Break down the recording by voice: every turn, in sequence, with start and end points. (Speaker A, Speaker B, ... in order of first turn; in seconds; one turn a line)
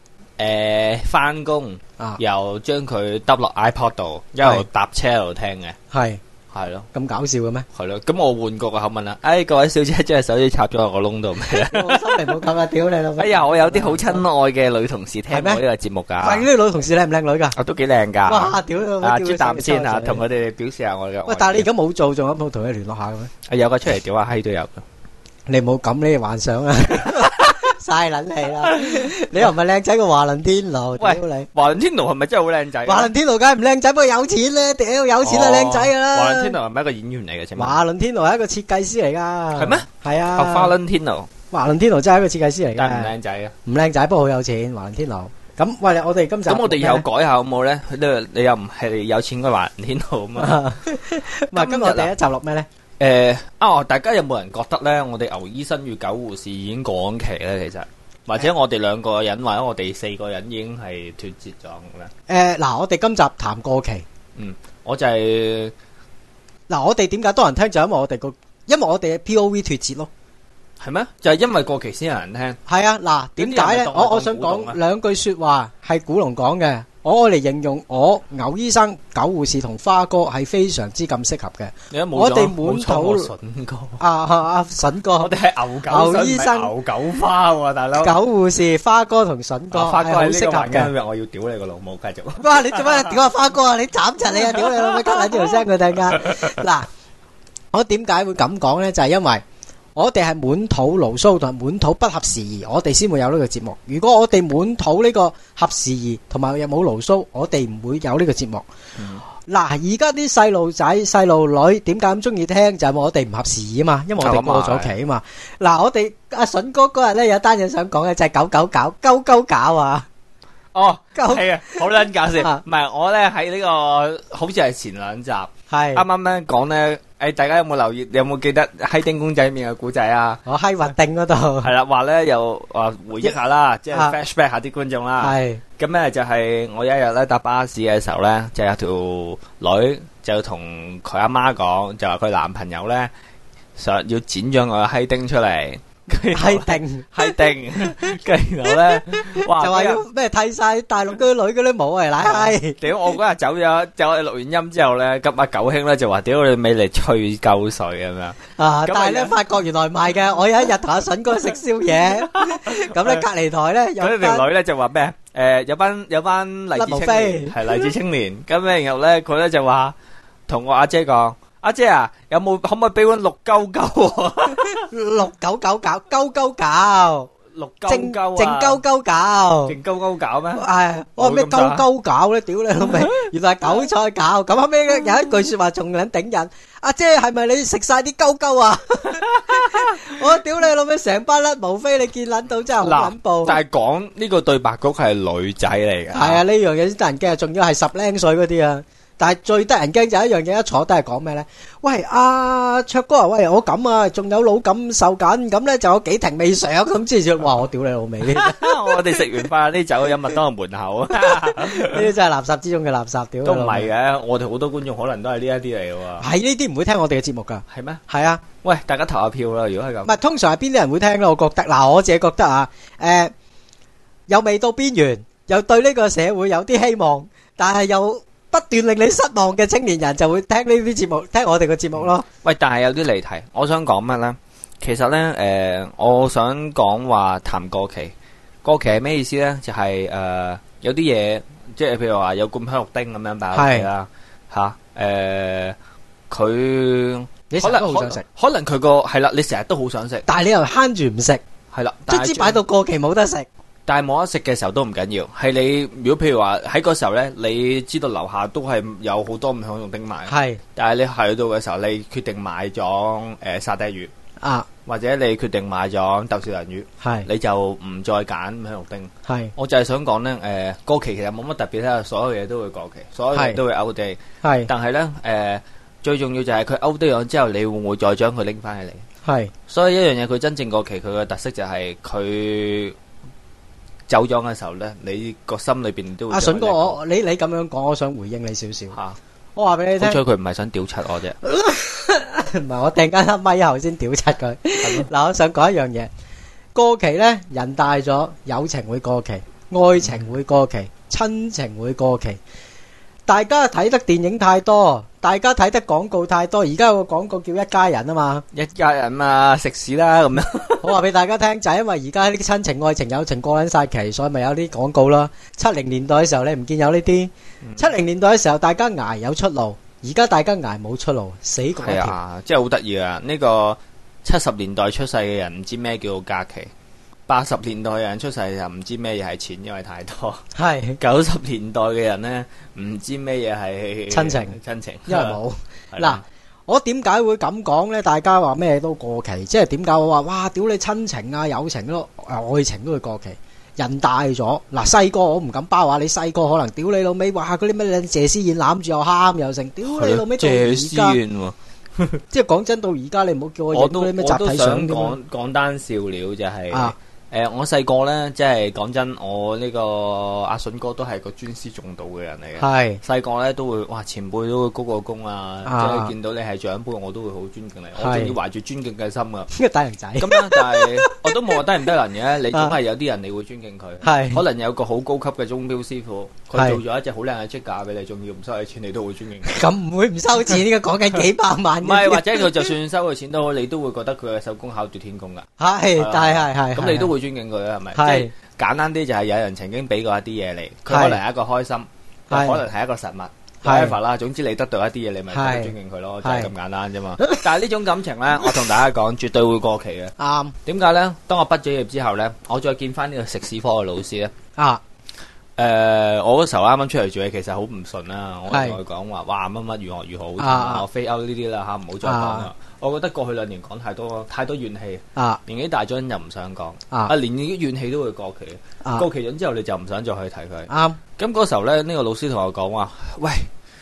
Speaker A: 0.4-5.8
Speaker B: 5.9-6.2
Speaker A: 6.5-6.9
Speaker B: 6.9-7.7
Speaker A: 7.7-12.3
Speaker B: 11.6-14.2
Speaker A: 13.2-16.5
Speaker B: 15.3-15.6
Speaker B: 16.2-17.6
Speaker A: 17.6-21.7
Speaker B: 18.3-20.2
Speaker B: 21.3-23.3
Speaker A: 23.5-24.8
Speaker B: 25.5-31.5
Speaker A: 27.0-27.6
Speaker A: 28.7-29.0
Speaker A: 31.0-33.1
Speaker B: 32.9-36.6
Speaker A: 35.2-37.8
Speaker B: 37.6-40.7
Speaker A: 39.5-41.3
Speaker B: 41.5-43.1
Speaker A: 42.8-43.5
Speaker B: 43.7-47.0
Speaker A: 46.5-50.6
Speaker B: 50.4-52.7
Speaker A: 51.5-52.1
Speaker A: 53.0-62.1
Speaker B: 62.3-64.1
Speaker A: 64.3-65.7
Speaker B: 66.7-70.1
Speaker A: 70.8-72.6
Speaker B: 72.7-83.3
Speaker A: 73.4-74.8
Speaker A: 81.9-84.0
Speaker B: 84.0-85.3
Speaker A: 85.2-88.2
Speaker B: 85.9-86.7
Speaker B: 88.0-90.9
Speaker A: 89.7-93.2
Speaker B: 92.4-96.9
Speaker A: 94.5-95.7
Speaker B: 97.7-99.4
Speaker B: 100.0-108.7
Speaker A: 109.0-109.2
Speaker B: 109.5-120.1
Speaker A: 114.2-115.0
Speaker A: 120.7-130.4
Speaker B: 121.2-121.8
Speaker B: 122.3-122.6
Speaker B: 125.7-126.0
Speaker B: 130.5-131.7
Speaker A: 131.6-143.1
Speaker B: 135.2-135.6
Speaker A: 143.8-150.0
Speaker B: 146.3-147.3
Speaker B: 148.9-152.8
Speaker A: 152.2-159.4
Speaker B: 158.6-164.5
Speaker A: 162.3-163.2
Speaker A: 164.0-169.9
Speaker B: 166.8-167.8
Speaker A: 170.5-174.9
Speaker B: 174.7-177.3
Speaker A: 177.5-178.8
Speaker B: 177.9-179.8
Speaker A: 179.7-180.6
Speaker B: 180.6-193.6
Speaker A: 181.2-181.8
Speaker A: 182.8-183.1
Speaker A: 189.5-190.1
Speaker A: 192.8-196.4
Speaker B: 196.1-209.2
Speaker A: 208.3-212.1
Speaker B: 211.3-213.9
Speaker A: 213.4-216.3
Speaker B: 216.2-218.4
Speaker A: 217.7-218.0
Speaker A: 218.6-220.2
Speaker B: 220.1-223.3
Speaker B: 224.3-232.3
Speaker A: 232.0-245.8
Speaker B: 243.5-243.9
Speaker A: 246.3-250.3
Speaker B: 247.5-248.2
Speaker B: 250.3-251.4
Speaker A: 251.7-252.6
Speaker B: 252.1-253.5
Speaker A: 253.9-264.1
Speaker B: 260.3-260.6
Speaker B: 264.4-264.7
Speaker A: 264.9-279.1
Speaker B: 267.0-267.3
Speaker B: 269.3-269.5
Speaker B: 273.3-273.6
Speaker B: 274.4-274.7
Speaker B: 279.2-279.5
Speaker A: 279.7-283.0
Speaker A: 284.1-287.0
Speaker B: 286.3-289.0
Speaker A: 288.9-289.2
Speaker B: 289.6-290.2
Speaker A: 290.0-291.4
Speaker B: 291.4-296.1
Speaker A: 294.8-295.1
Speaker B: 296.8-302.4
Speaker B: 303.3-308.4
Speaker A: 308.5-311.0
Speaker B: 310.8-322.1
Speaker A: 317.6-317.9
Speaker A: 321.8-326.7
Speaker A: 327.3-330.4
Speaker B: 330.6-331.0
Speaker A: 331.0-335.4
Speaker B: 334.1-334.6
Speaker B: 335.1-351.2
Speaker A: 335.9-336.2
Speaker A: 349.9-352.0
Speaker B: 352.3-355.2
Speaker A: 353.7-369.5
Speaker B: 362.6-363.0
Speaker B: 365.7-366.1
Speaker B: 368.0-368.4
Speaker B: 369.5-371.6
Speaker A: 370.2-379.7
Speaker B: 374.0-374.4
Speaker B: 376.5-376.8
Speaker B: 379.4-382.7
Speaker A: 381.8-404.3
Speaker B: 385.6-387.1
Speaker B: 387.9-388.3
Speaker B: 390.9-391.2
Speaker B: 392.3-392.6
Speaker B: 393.6-394.0
Speaker B: 395.3-395.7
Speaker B: 396.2-396.5
Speaker B: 397.2-397.4
Speaker B: 400.2-400.6
Speaker A: 405.6-423.5
Speaker B: 408.5-408.8
Speaker B: 410.4-410.8
Speaker B: 412.0-412.5
Speaker B: 420.7-421.0